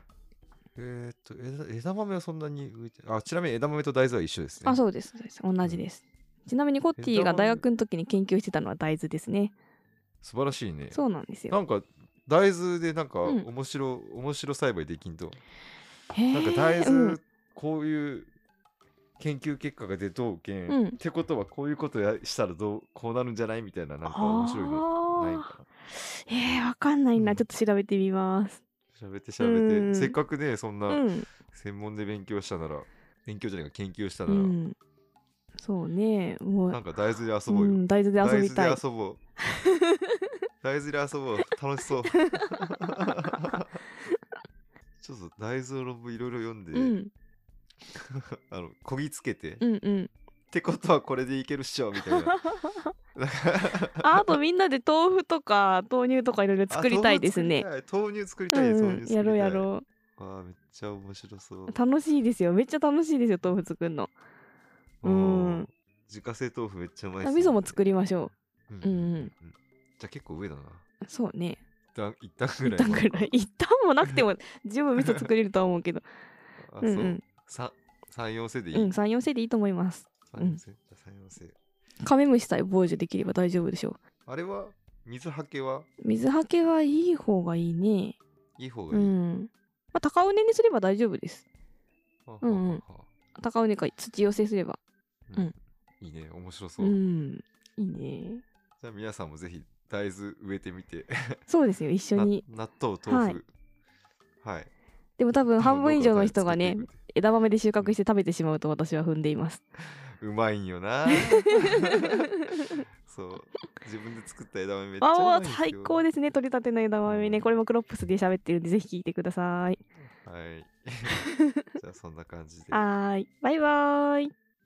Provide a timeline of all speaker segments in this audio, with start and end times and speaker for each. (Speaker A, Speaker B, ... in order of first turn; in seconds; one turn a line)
Speaker A: 0.8-4.8
Speaker B: 4.6-9.5
Speaker A: 7.0-7.6
Speaker A: 10.2-15.4
Speaker B: 10.9-11.6
Speaker B: 16.1-17.2
Speaker A: 16.3-18.3
Speaker A: 19.2-25.6
Speaker B: 20.7-21.0
Speaker B: 24.0-25.5
Speaker B: 26.3-28.6
Speaker A: 27.1-27.4
Speaker A: 28.9-34.5
Speaker B: 29.4-30.2
Speaker B: 30.9-31.3
Speaker B: 34.3-34.8
Speaker B: 35.6-36.8
Speaker A: 36.7-39.2
Speaker B: 37.5-38.8
Speaker A: 40.6-43.6
Speaker B: 42.2-42.5
Speaker A: 45.0-47.0
Speaker B: 46.7-47.1
Speaker A: 47.9-49.6
Speaker B: 49.6-50.1
Speaker A: 50.5-52.4
Speaker B: 52.2-52.6
Speaker A: 53.1-54.2
Speaker B: 54.0-57.6
Speaker A: 56.7-61.8
Speaker B: 58.5-59.8
Speaker B: 61.7-64.1
Speaker A: 65.0-67.8
Speaker B: 65.0-65.7
Speaker B: 67.2-69.3
Speaker A: 68.7-70.8
Speaker B: 71.0-71.6
Speaker A: 71.9-73.3
Speaker B: 72.6-76.0
Speaker A: 76.7-79.0
Speaker B: 76.8-77.2
Speaker B: 78.7-80.6
Speaker A: 80.3-81.5
Speaker B: 82.0-84.0
Speaker A: 84.2-85.9
Speaker B: 86.0-88.2
Speaker A: 88.6-89.1
Speaker B: 88.9-91.4
Speaker A: 92.3-93.0
Speaker B: 92.4-92.8
Speaker B: 93.4-94.8
Speaker A: 95.3-97.0
Speaker B: 96.8-98.4
Speaker A: 98.8-101.4
Speaker B: 101.5-102.4
Speaker A: 102.1-103.5
Speaker B: 103.0-103.4
Speaker A: 104.4-104.7
Speaker B: 105.2-109.6
Speaker A: 105.6-107.0
Speaker A: 110.2-112.1
Speaker B: 111.6-111.9
Speaker A: 113.0-116.0
Speaker B: 115.0-119.8
Speaker A: 117.0-117.5
Speaker A: 120.2-121.2
Speaker A: 121.8-122.8
Speaker B: 122.7-124.3